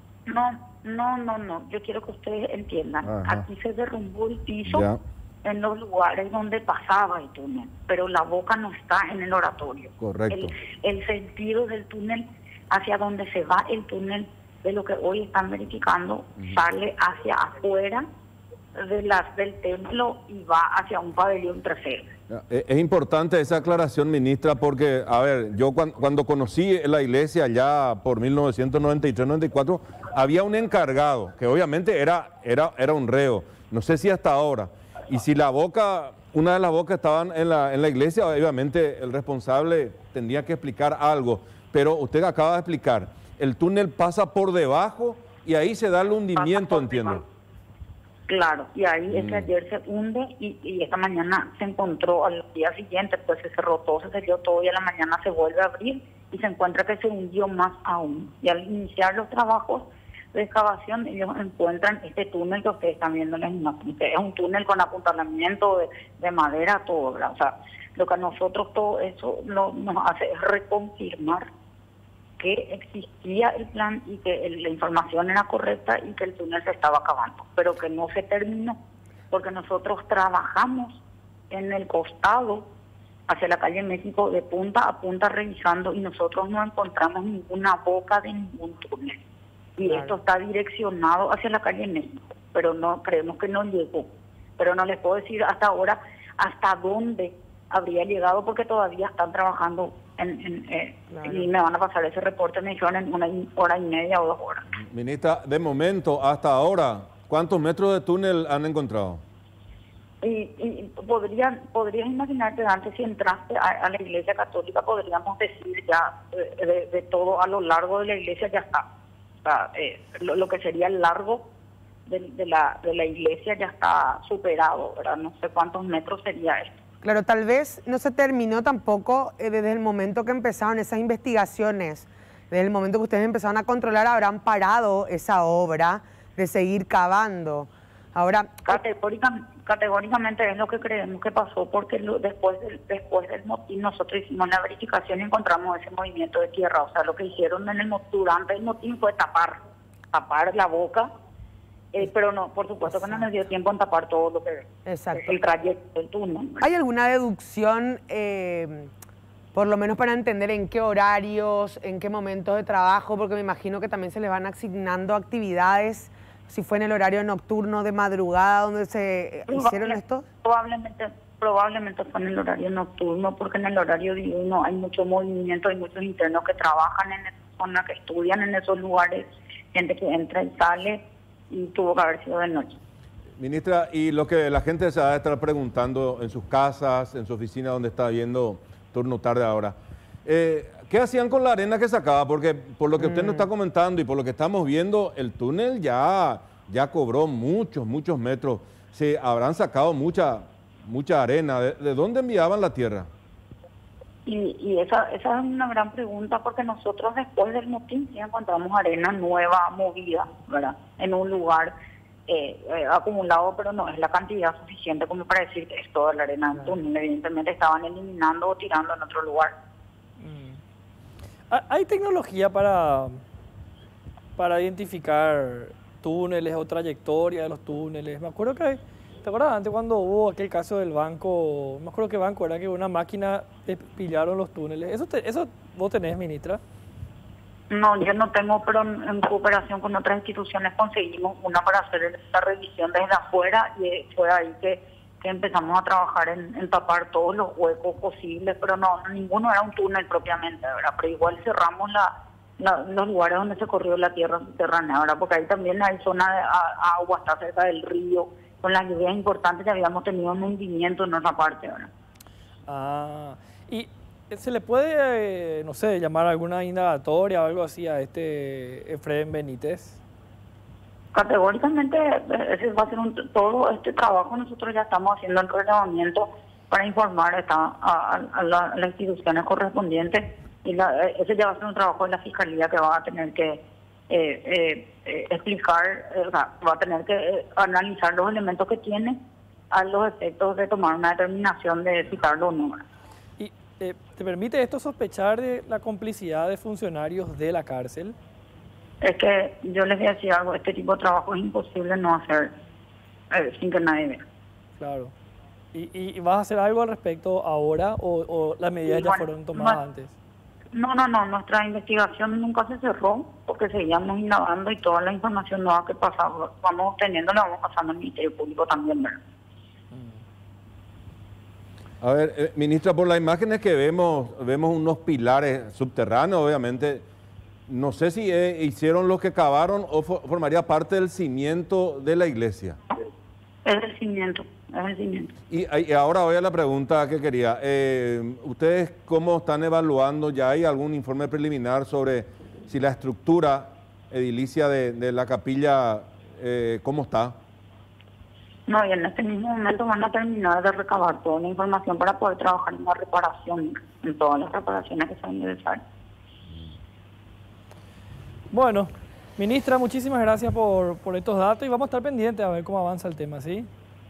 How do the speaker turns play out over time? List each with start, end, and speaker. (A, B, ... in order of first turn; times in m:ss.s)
0:00.3-0:04.9 A
0:03.0-0:03.4 B
0:04.7-0:05.0 B
0:05.4-0:18.0 A
0:10.0-0:10.5 B
0:18.8-0:22.1 A
0:22.3-0:47.2 B
0:46.3-0:47.2 A
0:48.3-1:11.4 A
0:49.1-0:49.5 B
1:12.4-1:18.8 A
1:19.3-1:22.7 A
1:23.3-1:29.2 A
1:29.8-1:44.6 A
1:29.8-1:30.1 C
1:41.2-1:41.5 C
1:44.7-1:49.2 B
1:50.2-1:58.8 A
1:59.4-2:01.4 A
2:02.1-2:06.8 A
2:07.0-2:18.8 C
2:18.6-2:29.6 A
2:30.1-2:31.1 A
2:31.9-2:36.6 A
2:34.8-2:35.3 C
2:36.6-2:38.9 C
2:39.5-2:50.2 C
2:49.5-3:02.8 A
3:03.4-3:23.1 B
3:13.0-3:13.5 C
3:24.2-3:31.7 A
3:32.3-3:39.5 A
3:40.2-3:40.6 D
3:41.5-3:43.2 D
3:44.4-3:56.6 D
3:57.7-4:12.1 A
4:12.6-4:21.9 A
4:22.7-4:30.0 D
4:31.1-4:49.2 A
4:49.7-4:52.8 A
4:53.4-4:58.2 D
4:59.0-5:02.5 A
5:03.3-5:04.2 A
5:04.8-5:05.1 D
5:05.7-5:10.1 D
5:08.9-5:09.8 A
5:10.7-5:19.2 A
5:19.9-5:20.2 D
5:22.0-5:27.0 B
5:27.7-5:32.8 B
5:33.6-5:35.3 A
5:35.5-5:47.4 B
5:48.7-5:55.8 A
5:58.5-6:03.7 D